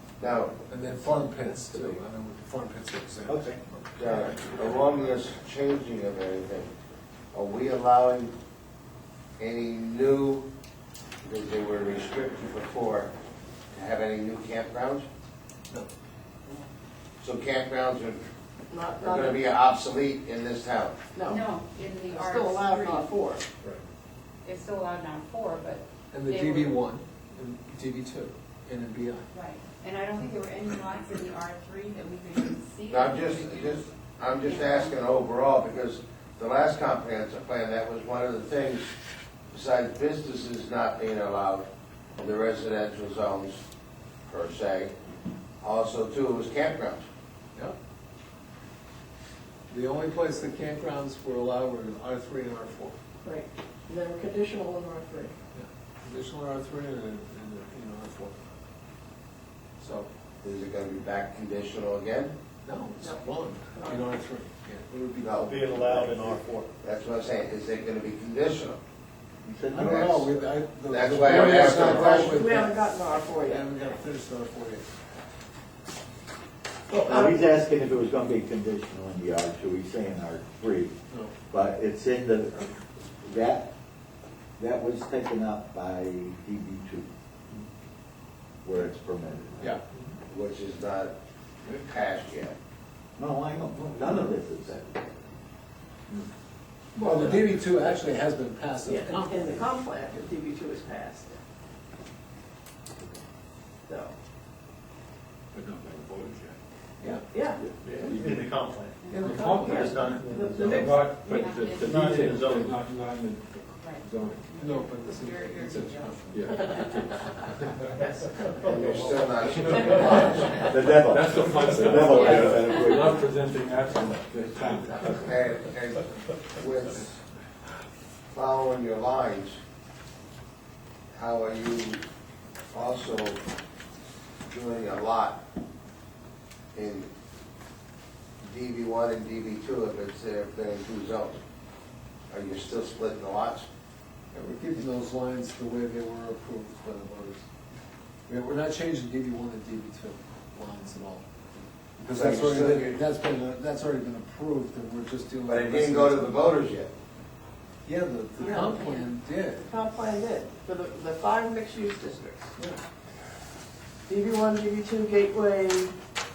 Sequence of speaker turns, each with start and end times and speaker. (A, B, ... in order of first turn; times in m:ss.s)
0:00.2-0:01.6 A
0:00.7-0:03.6 B
0:03.2-0:03.6 C
0:04.0-0:06.7 A
0:07.3-0:08.3 A
0:09.4-0:10.4 A
0:11.2-0:13.1 A
0:13.7-0:15.0 A
0:17.2-0:18.2 A
0:18.7-0:19.4 D
0:19.0-0:21.0 A
0:21.1-0:21.5 D
0:21.3-0:23.2 E
0:22.1-0:23.4 D
0:24.4-0:26.8 E
0:26.1-0:29.3 B
0:29.3-0:35.0 E
0:32.9-0:38.9 A
0:39.5-0:41.7 A
0:42.2-0:43.6 A
0:44.3-0:44.9 A
0:45.6-0:47.0 A
0:49.7-0:53.0 B
0:53.2-0:55.3 D
0:55.5-0:58.4 B
0:59.8-1:00.1 B
1:00.4-1:02.3 A
1:02.6-1:06.1 B
1:03.7-1:04.0 D
1:05.2-1:05.6 A
1:05.4-1:06.7 F
1:06.8-1:08.8 A
1:09.4-1:10.2 C
1:09.7-1:12.8 B
1:09.8-1:10.3 A
1:10.9-1:12.4 A
1:11.7-1:13.7 D
1:13.3-1:14.9 B
1:16.9-1:17.4 D
1:17.0-1:21.0 C
1:21.5-1:23.7 C
1:24.6-1:27.1 C
1:28.6-1:29.8 C
1:30.3-1:31.1 A
1:31.6-1:32.5 A
1:33.2-1:35.0 C
1:37.0-1:37.5 D
1:37.0-1:39.6 B
1:38.8-1:41.4 D
1:43.9-1:44.1 D
1:45.5-1:46.6 G
1:47.3-1:47.6 D
1:47.8-1:49.1 F
1:48.0-1:48.4 G
1:49.0-1:49.4 E
1:49.1-1:54.5 G
1:49.2-1:51.4 D
1:49.7-1:52.9 F
1:51.4-1:52.7 E
1:53.7-1:57.1 E
1:54.6-1:56.6 B
1:56.3-1:57.2 G
1:58.0-1:58.3 D
1:58.6-2:00.7 A
1:59.7-2:00.0 G
2:00.7-2:03.2 C
2:00.8-2:05.5 G
2:02.1-2:03.1 E
2:05.2-2:07.2 A
2:08.3-2:09.6 A
2:11.1-2:12.0 A
2:12.7-2:13.4 A
2:14.5-2:15.4 A
2:16.7-2:17.1 A
2:18.4-2:21.4 A
2:22.3-2:23.6 A
2:24.3-2:27.4 B
2:28.3-2:31.2 B
2:32.0-2:36.4 B
2:32.1-2:33.0 A
2:35.5-2:36.9 A
2:37.8-2:39.6 B
2:38.4-2:42.6 D
2:44.1-2:45.9 D